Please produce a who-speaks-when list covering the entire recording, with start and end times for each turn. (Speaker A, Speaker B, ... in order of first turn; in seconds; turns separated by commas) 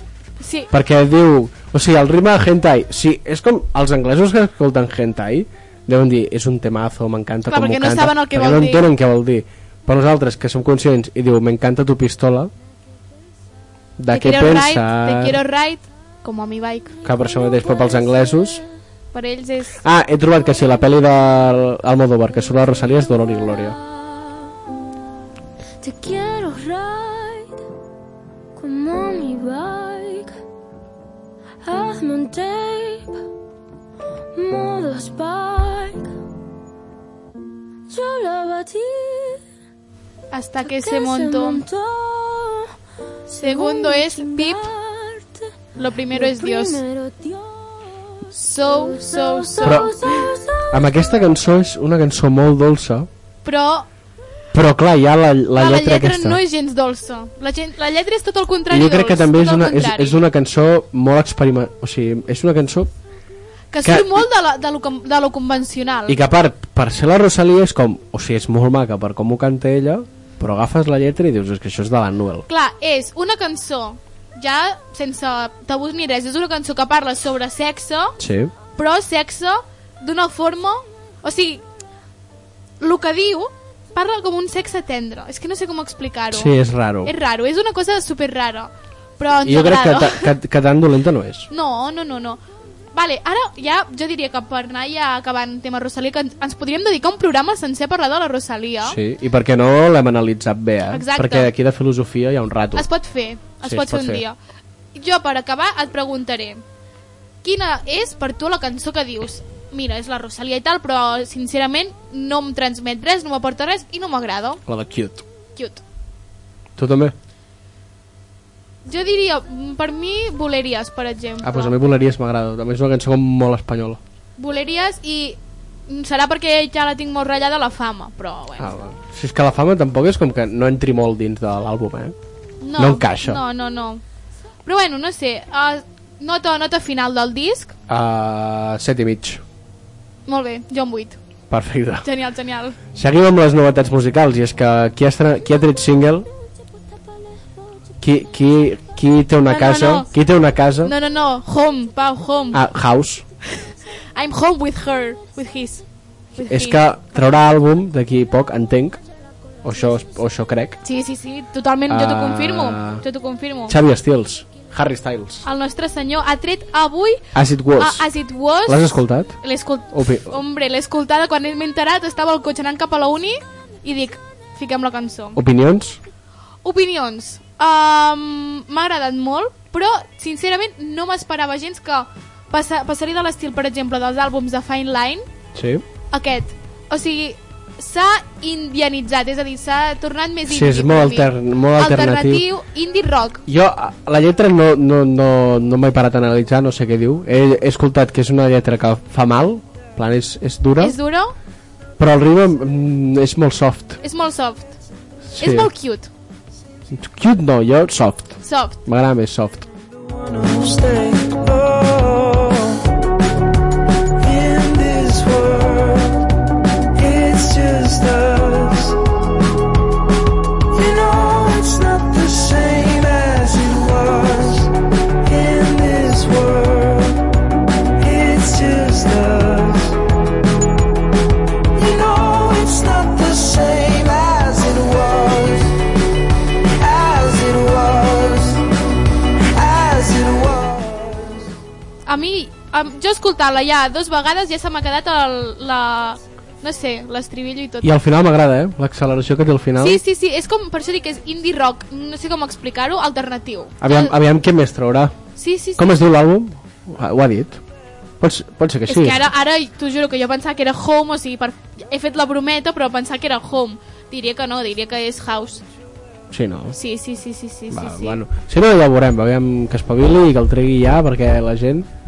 Speaker A: 0.4-0.7, Speaker B: 0.7-12.5, Speaker A: 7.5-8.9, Speaker B: 14.0-15.4, Speaker A: 14.1-17.0, Speaker B: 17.0-18.6, Speaker A: 19.1-19.8, Speaker B: 19.8-23.8, Speaker C: 25.8-27.5, Speaker C: 28.6-30.4, Speaker C: 31.6-33.2, Speaker C: 34.3-36.1, Speaker C: 37.9-39.4, Speaker A: 40.3-41.6, Speaker C: 40.6-42.7, Speaker C: 43.3-45.5, Speaker A: 43.4-44.7, Speaker A: 45.8-46.8, Speaker C: 46.1-51.2, Speaker A: 48.3-49.9, Speaker B: 49.6-49.9, Speaker B: 50.7-53.1, Speaker A: 53.4-53.9, Speaker B: 54.5-56.4, Speaker A: 55.5-60.2, Speaker B: 58.7-62.9, Speaker A: 63.7-66.2, Speaker B: 63.8-64.2, Speaker B: 66.1-72.5, Speaker A: 72.5-78.2, Speaker B: 78.2-78.5, Speaker A: 78.8-81.6, Speaker A: 82.8-86.5, Speaker B: 86.3-87.1, Speaker A: 87.0-90.3, Speaker B: 89.4-91.5, Speaker A: 91.5-92.4, Speaker A: 92.9-99.0, Speaker B: 98.8-102.9, Speaker A: 100.9-101.5, Speaker A: 102.8-104.3, Speaker B: 103.6-104.2, Speaker A: 104.9-106.6, Speaker A: 107.4-114.6, Speaker B: 114.7-115.2, Speaker A: 115.5-115.8, Speaker B: 116.8-117.1, Speaker A: 118.8-121.7, Speaker B: 121.4-124.0, Speaker A: 124.4-128.7, Speaker B: 128.6-132.1, Speaker A: 132.6-134.0, Speaker B: 132.8-133.4, Speaker A: 134.6-137.7, Speaker B: 137.9-139.4, Speaker A: 140.2-141.2, Speaker B: 141.5-142.1, Speaker A: 142.0-142.8, Speaker B: 142.9-146.3, Speaker B: 148.0-150.9, Speaker A: 149.4-150.1, Speaker A: 150.8-152.6, Speaker B: 152.5-153.2, Speaker A: 153.5-155.8, Speaker A: 156.3-156.8, Speaker B: 156.4-159.0, Speaker B: 159.6-160.8, Speaker A: 160.8-163.8, Speaker B: 161.9-163.0, Speaker B: 163.7-165.4, Speaker A: 165.4-175.4, Speaker B: 167.3-168.1, Speaker B: 168.7-169.4, Speaker B: 169.9-170.4, Speaker B: 175.3-176.0, Speaker A: 176.6-185.2, Speaker B: 185.5-185.8, Speaker A: 186.1-193.4, Speaker B: 190.5-192.4, Speaker B: 193.4-201.0, Speaker A: 200.8-201.3, Speaker B: 202.0-204.0, Speaker A: 204.0-204.7, Speaker B: 205.3-205.7, Speaker A: 205.4-206.1, Speaker B: 206.9-209.7, Speaker A: 208.4-208.8, Speaker D: 210.1-212.8, Speaker D: 214.2-216.2, Speaker D: 216.9-218.9, Speaker D: 220.7-224.7, Speaker D: 225.2-227.2, Speaker D: 228.0-229.9, Speaker D: 231.8-235.7, Speaker D: 236.8-238.6, Speaker D: 239.5-241.4, Speaker A: 242.1-247.9, Speaker B: 247.8-250.0, Speaker A: 249.8-254.1, Speaker B: 253.8-255.1, Speaker A: 255.3-255.8, Speaker B: 255.8-257.6, Speaker B: 258.2-259.2, Speaker A: 258.9-265.6, Speaker B: 266.3-266.8, Speaker A: 266.7-268.2, Speaker B: 267.7-271.9